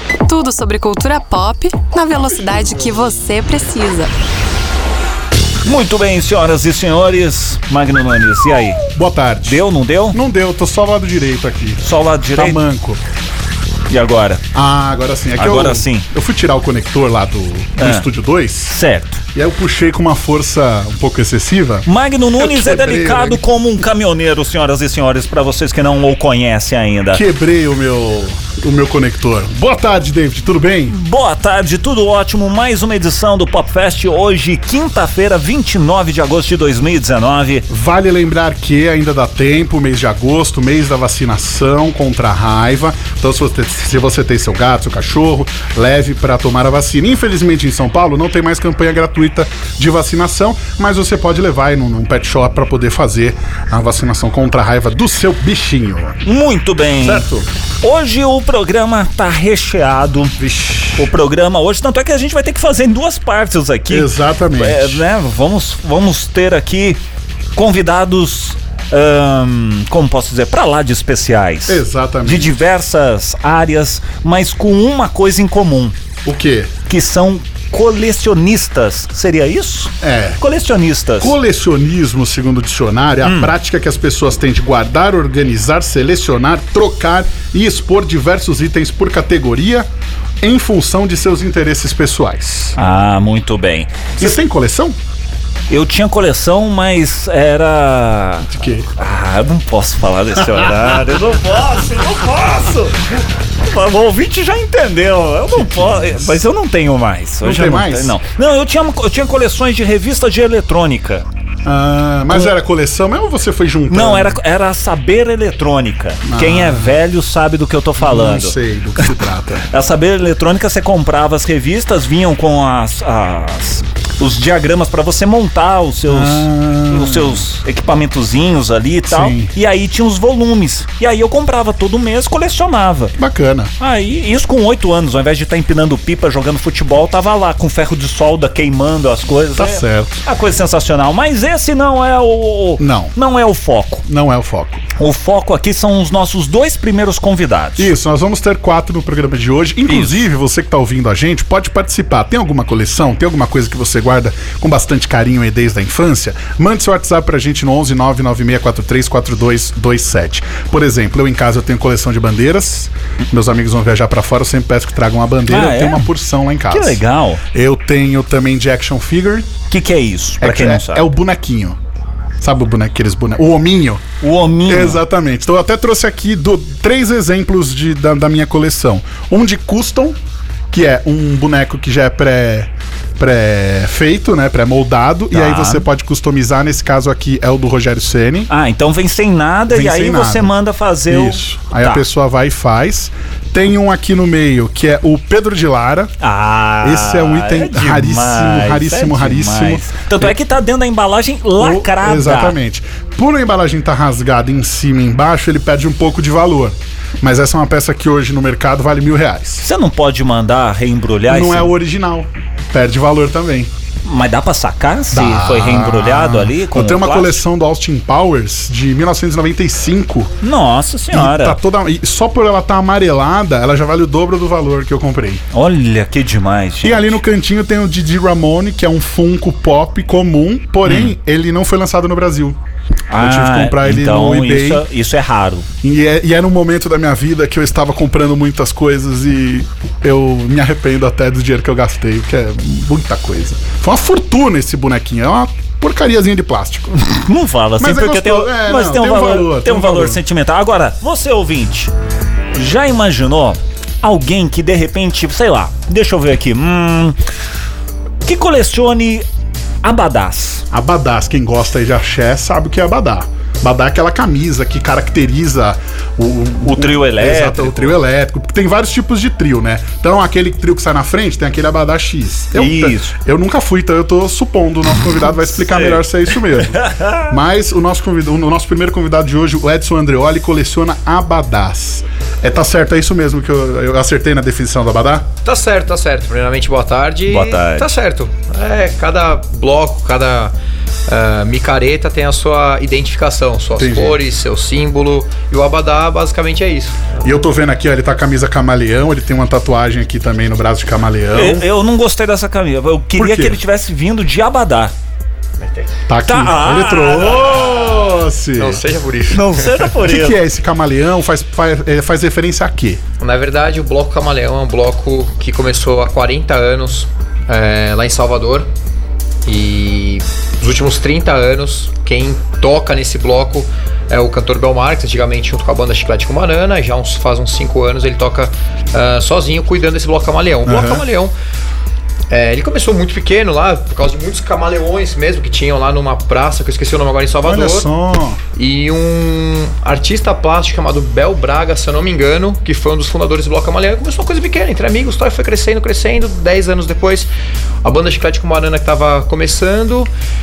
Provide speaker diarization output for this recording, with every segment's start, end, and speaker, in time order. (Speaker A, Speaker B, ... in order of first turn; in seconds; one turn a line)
Speaker A: 0.3-4.1
Speaker B: 5.7-8.8
Speaker C: 8.9-11.8
Speaker B: 9.4-10.2
Speaker B: 11.8-12.6
Speaker C: 12.3-13.0
Speaker B: 13.9-14.4
Speaker C: 14.5-18.8
Speaker B: 15.4-16.1
Speaker B: 17.8-18.1
Speaker B: 18.7-19.2
Speaker C: 19.3-21.9
Speaker B: 21.9-27.2
Speaker C: 22.4-23.4
Speaker C: 27.1-31.0
Speaker B: 30.9-37.7
Speaker C: 37.7-56.2
Speaker B: 56.2-57.3
Speaker C: 57.0-57.5
Speaker B: 57.8-60.4
Speaker C: 60.4-61.1
Speaker B: 60.9-67.0
Speaker C: 63.9-65.0
Speaker B: 67.5-75.9
Speaker C: 71.7-72.5
Speaker C: 76.2-76.8
Speaker B: 76.9-81.3
Speaker C: 80.0-80.4
Speaker C: 81.2-89.9
Speaker B: 83.2-83.5
Speaker C: 90.4-92.8
Speaker B: 92.8-94.3
Speaker C: 94.2-95.0
Speaker B: 95.7-111.2
Speaker C: 98.4-98.9
Speaker C: 100.5-101.1
Speaker C: 105.5-106.3
Speaker C: 107.4-108.2
Speaker C: 111.6-114.4
Speaker B: 113.9-119.1
Speaker C: 116.2-117.0
Speaker C: 118.0-119.6
Speaker B: 119.7-133.1
Speaker C: 126.0-127.4
Speaker C: 129.1-129.5
Speaker C: 133.2-133.7
Speaker B: 133.8-144.0
Speaker C: 139.6-140.2
Speaker C: 142.8-143.1
Speaker C: 144.0-144.8
Speaker B: 145.0-147.9
Speaker C: 147.8-167.0
Speaker B: 165.5-166.1
Speaker B: 166.7-167.4
Speaker C: 167.5-169.5
Speaker B: 169.7-171.1
Speaker C: 170.4-171.8
Speaker C: 172.4-174.0
Speaker B: 174.2-175.0
Speaker C: 174.7-180.2
Speaker C: 180.7-188.5
Speaker B: 185.3-185.8
Speaker B: 188.5-192.0
Speaker C: 189.7-190.5
Speaker C: 191.1-196.1
Speaker B: 196.2-202.6
Speaker C: 196.8-200.3
Speaker C: 201.6-209.7
Speaker B: 209.6-211.7
Speaker C: 211.3-213.7
Speaker B: 214.0-217.4
Speaker C: 215.1-220.3
Speaker B: 220.4-221.6
Speaker C: 221.1-225.4
Speaker B: 225.5-227.2
Speaker C: 226.8-232.6
Speaker B: 230.8-231.1
Speaker B: 233.1-235.7
Speaker C: 233.2-234.8
Speaker C: 235.8-247.1
Speaker B: 247.1-251.9
Speaker C: 247.8-250.2
Speaker B: 252.5-257.2
Speaker B: 258.2-259.2
Speaker B: 259.8-260.6
Speaker C: 260.7-285.3
Speaker B: 266.6-268.0
Speaker B: 272.5-273.1
Speaker B: 275.7-277.3
Speaker D: 285.4-290.5
Speaker B: 287.2-287.9
Speaker D: 291.1-297.1
Speaker C: 293.8-294.2
Speaker C: 297.2-301.7
Speaker B: 301.3-304.9
Speaker C: 303.1-303.6
Speaker D: 305.6-305.9
Speaker C: 306.1-308.8
Speaker B: 306.2-307.6
Speaker D: 307.5-307.8
Speaker D: 308.6-309.9
Speaker B: 309.3-310.4
Speaker C: 310.0-313.0
Speaker D: 313.2-318.7
Speaker D: 319.4-331.3
Speaker C: 330.6-331.1
Speaker D: 332.3-337.9
Speaker C: 337.4-338.4
Speaker D: 338.6-347.3
Speaker D: 347.8-350.1